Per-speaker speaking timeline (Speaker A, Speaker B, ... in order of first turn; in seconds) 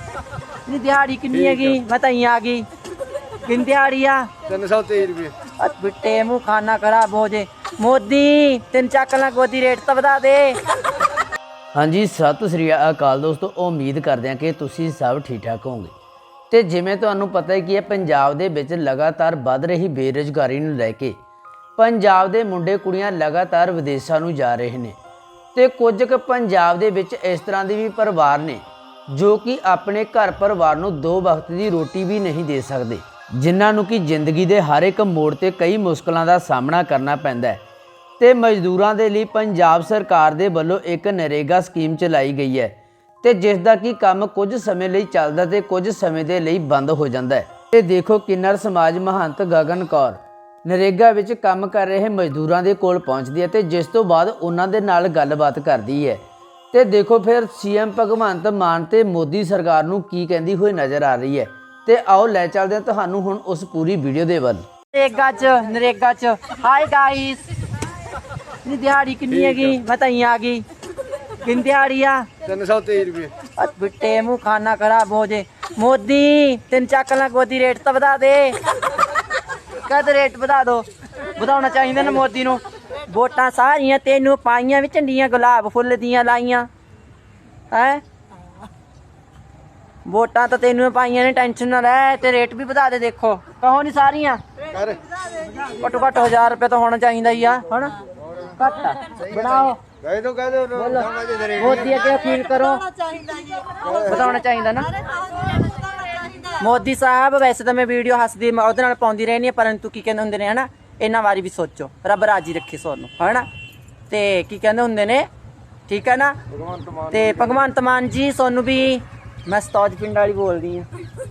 Speaker A: 0.7-2.6, 3.4-4.3, 5.6-10.6, 64.9-67.5, 68.6-70.6, 71.4-72.3, 73.5-78.6, 79.8-86.7, 87.7-88.0, 90.0-94.4, 95.6-98.0, 98.5-99.8, 100.7-102.9, 103.8-105.0, 106.4-113.5, 114.1-115.3, 115.9-116.4, 117.1-120.9
Speaker B: 4.5-5.3, 72.4-73.3, 94.7-95.0, 100.0-101.6, 116.6-117.1
Speaker C: 11.7-15.9, 16.5-21.2, 21.8-25.0, 25.5-37.6, 38.2-64.6